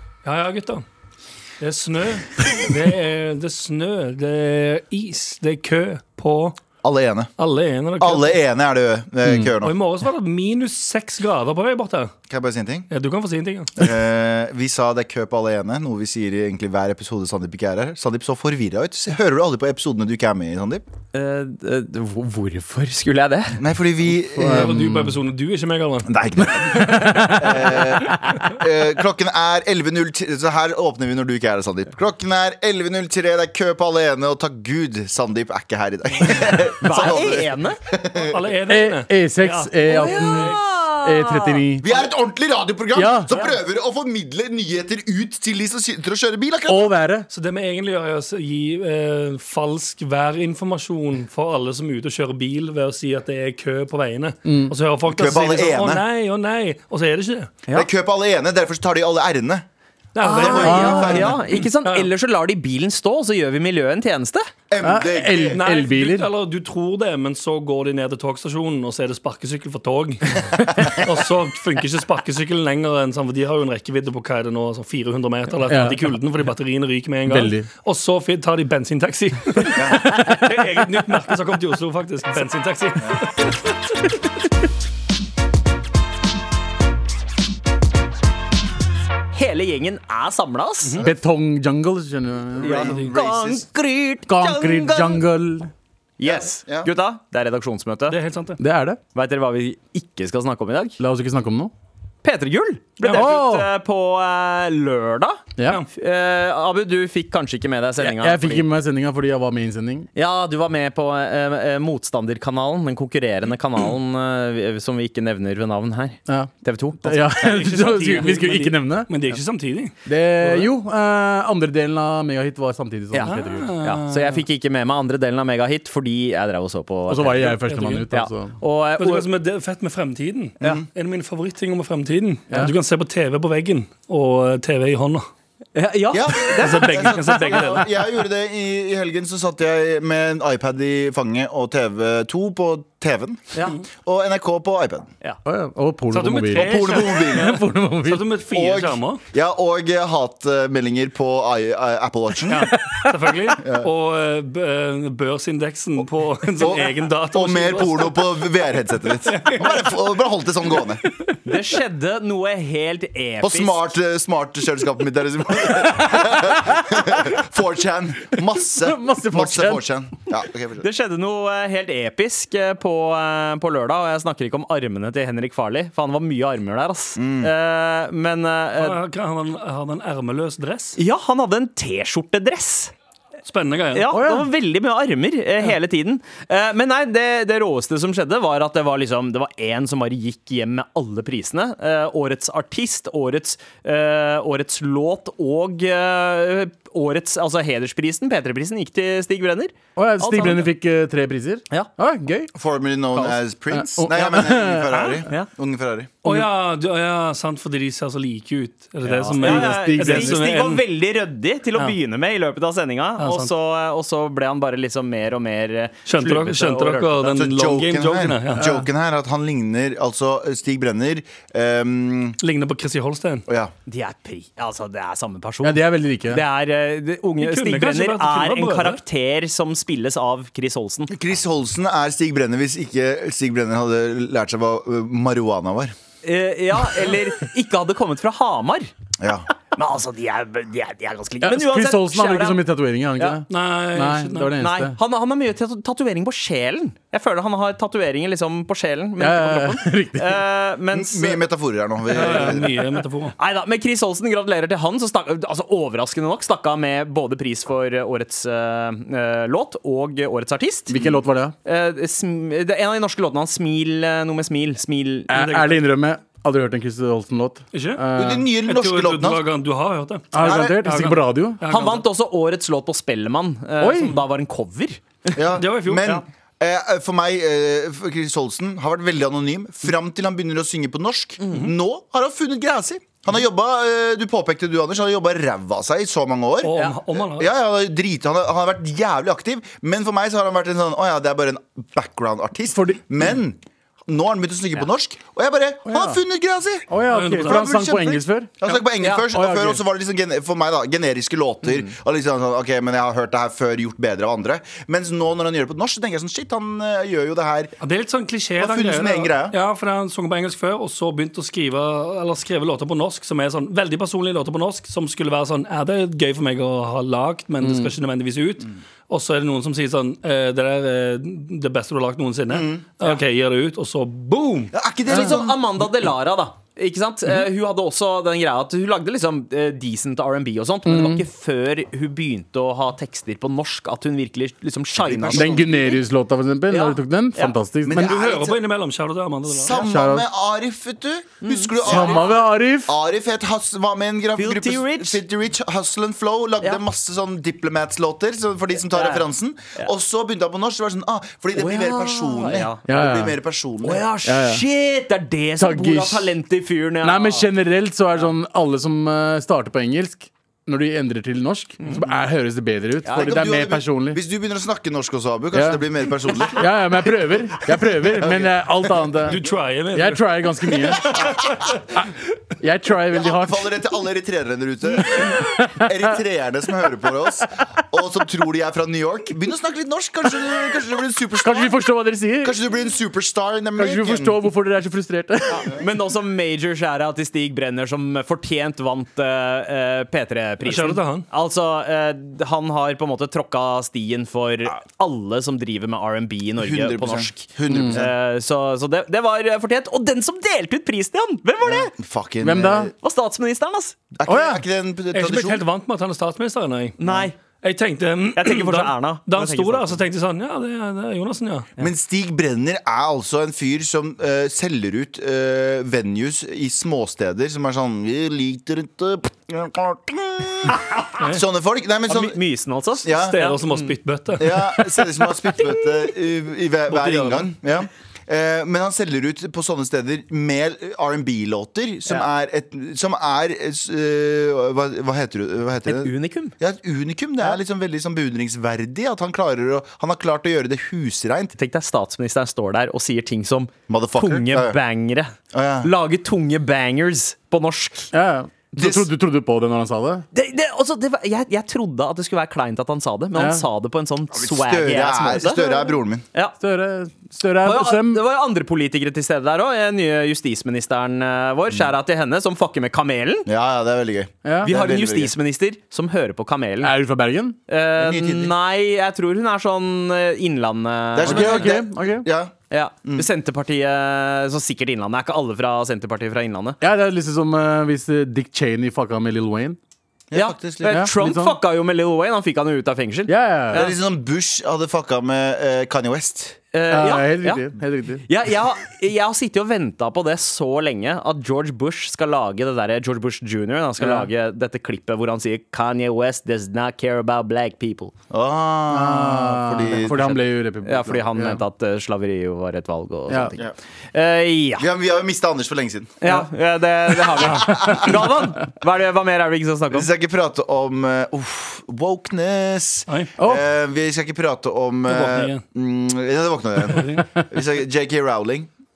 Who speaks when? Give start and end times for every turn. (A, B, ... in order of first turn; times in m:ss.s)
0:00.2-0:00.8 A
0:01.6-0:06.6 A
0:06.8-0:07.3 B
0:07.4-0:08.4 A
0:08.0-0:09.8 B
0:09.6-0:12.1 A
0:12.3-0:12.9 B
0:12.9-0:13.9 A
0:13.8-0:20.8 B
0:21.1-0:23.6 C
0:23.6-0:24.8 B
0:24.4-0:25.2 D
0:24.4-0:26.1 A
0:26.1-0:38.4 B
0:26.6-0:28.4 D
0:36.8-0:37.8 C
0:38.2-0:40.6 A
0:38.7-0:41.9 D
0:39.9-0:41.7 C
0:41.8-0:46.9 B
0:43.0-0:43.3 D
0:46.7-0:47.3 D
0:47.3-0:57.5 A
0:54.5-0:54.7 D
0:55.1-0:56.0 B
0:57.7-0:59.7 B
1:00.2-1:02.1 A
1:00.2-1:04.5 C
1:00.3-1:01.4 B
1:00.6-1:01.2 D
1:04.7-1:05.6 B
1:04.8-1:06.3 D
1:05.5-1:23.6 A
1:15.7-1:16.0 D
1:17.3-1:17.7 D
1:19.8-1:20.0 B
1:29.3-1:31.0 C
1:30.8-1:31.1 A
1:31.0-1:33.1 D
1:32.6-1:33.7 B
1:32.6-1:35.2 C
1:32.8-1:33.1 A
1:34.3-1:35.7 D
1:36.2-1:38.2 C
1:36.2-1:36.9 B
1:38.1-1:38.6 A
1:38.6-1:39.0 D
1:39.1-1:41.0 C
1:41.0-1:41.7 D
1:42.2-1:48.7 C
1:43.0-1:43.7 D
1:45.6-1:45.8 D
1:48.0-1:50.1 D
1:50.2-1:57.4 C
1:56.3-1:59.4 D
1:57.4-2:00.7 A
2:00.1-2:03.8 D
2:03.1-2:07.6 C
2:03.2-2:04.4 A
2:07.1-2:08.6 D
2:07.6-2:08.1 A
2:08.1-2:09.3 C
2:09.0-2:15.3 A
2:10.6-2:10.9 B
2:15.8-2:17.8 C
2:16.1-2:25.1 B
2:16.5-2:17.9 A
2:23.5-2:23.8 C
2:25.5-2:28.2 D
2:26.1-2:29.2 A
2:26.6-2:27.6 B
2:28.5-2:32.8 B
2:32.5-2:38.4 A
2:32.7-2:33.1 D
2:33.6-2:33.9 B
2:36.6-2:41.0 B
2:39.2-2:39.9 A
2:41.4-2:43.9 C
2:43.4-2:50.9 B
2:45.9-2:46.7 D
2:48.7-2:49.8 D
2:50.8-2:59.0 C
2:57.2-2:57.5 B
2:58.8-3:01.0 A
3:01.0-3:02.9 C
3:03.4-3:04.1 A
3:03.9-3:20.7 C
3:04.1-3:04.5 D
3:20.0-3:22.5 D
3:22.5-3:26.1 B
3:23.1-3:25.2 D
3:26.2-3:30.8 A
3:29.0-3:37.3 C
3:29.4-3:30.4 D
3:33.2-3:33.5 A
3:36.1-3:38.9 A
3:37.3-3:42.4 B
3:42.4-3:43.4 A
3:43.5-3:43.7 B
3:43.9-3:51.1 C
3:45.6-3:46.4 D
3:47.4-3:49.0 A
3:51.1-3:56.0 B
3:56.2-3:58.9 C
3:59.2-3:59.5 B
3:59.7-4:02.6 C
4:01.4-4:05.0 D
4:03.5-4:04.6 A
4:04.6-4:11.4 C
4:09.2-4:10.4 D
4:10.9-4:12.8 B
4:12.1-4:13.4 A
4:12.2-4:12.6 C
4:13.4-4:21.0 C
4:20.9-4:21.6 D
4:21.6-4:25.3 C
4:25.3-4:28.4 D
4:25.3-4:25.8 A
4:27.7-4:28.0 A
4:28.2-4:29.4 B
4:28.6-4:32.0 A
4:30.3-4:31.6 D
4:30.4-4:30.9 B
4:31.7-4:35.0 C
4:33.8-4:34.2 D
4:35.3-5:07.7 B
4:35.6-4:36.1 A
4:41.4-4:41.7 C
4:46.6-4:47.5 A
4:52.7-4:53.0 D
4:55.9-4:56.2 D
4:56.9-4:58.5 D
4:57.1-4:57.7 A
4:59.1-4:59.8 D
5:07.8-5:24.7 A
5:08.6-5:09.6 B
5:17.6-5:17.9 D
5:22.5-5:22.9 B
5:24.7-5:25.6 B
5:25.1-5:36.0 C
5:30.9-5:31.2 D
5:35.0-5:35.9 B
5:35.3-5:38.0 D
5:36.7-5:37.6 C
5:37.8-5:38.6 B
5:37.9-5:39.8 A
5:39.5-5:54.1 B
5:39.8-5:40.3 D
5:41.4-5:42.2 C
5:41.8-5:42.9 D
5:44.4-5:45.2 C
5:48.9-5:49.2 C
5:51.6-5:53.0 C
5:52.9-5:53.4 D
5:53.8-5:57.5 C
5:54.2-5:54.6 D
5:55.6-5:56.4 D
5:57.0-6:04.2 D
6:03.0-6:09.2 B
6:05.5-6:05.8 D
6:06.4-6:09.4 D
6:09.3-6:10.2 A
6:09.9-6:11.7 D
6:10.7-6:11.7 B
6:12.6-6:13.7 D
6:13.1-6:21.8 B
6:15.1-6:16.1 D
6:21.4-6:22.6 D
6:22.4-6:24.4 B
6:23.8-6:25.8 D
6:25.5-6:41.9 C
6:30.6-6:31.3 A
6:36.6-6:38.1 B
6:37.7-6:38.0 D
6:41.6-6:42.9 B
6:42.4-6:42.9 D
6:43.0-6:44.0 C
6:44.1-6:45.6 B
6:44.3-6:44.6 D
6:45.1-6:47.0 A
6:47.0-6:47.4 C
6:47.6-6:51.7 A
6:48.4-6:50.0 C
6:51.8-7:02.4 B
7:00.7-7:01.0 C
7:02.1-7:04.0 C
7:03.0-7:03.4 B
7:03.1-7:04.7 A
7:04.4-7:21.6 B
7:06.9-7:07.5 A
7:15.9-7:16.5 C
7:21.6-7:28.1 C
7:23.9-7:24.8 B
7:25.5-7:25.9 B
7:28.1-7:30.3 D
7:28.8-7:29.1 B
7:30.3-7:36.6 C
7:33.4-7:33.6 D
7:34.3-7:36.2 B
7:36.6-7:38.2 D
7:37.6-7:43.5 C
7:43.5-7:45.4 B
7:44.5-7:44.7 D
7:44.6-7:46.9 C
7:46.8-7:47.6 D
7:47.7-7:51.8 C
7:48.0-7:48.5 B
7:51.1-7:52.5 B
7:51.2-7:52.3 D
7:52.7-7:56.8 C
7:56.8-7:59.8 D
8:00.3-8:01.1 B
8:00.3-8:04.0 C
8:00.9-8:01.6 D
8:03.3-8:03.9 D
8:03.7-8:06.6 B
8:06.7-8:07.7 C
8:06.9-8:08.2 D
8:08.3-8:18.1 C
8:14.0-8:14.3 D
8:18.3-8:20.4 B
8:18.9-8:21.6 D
8:20.0-8:24.9 C
8:24.8-8:26.3 B
8:26.2-8:30.1 C
8:27.1-8:28.3 B
8:29.9-8:38.7 B
8:33.4-8:33.6 D
8:35.1-8:35.6 A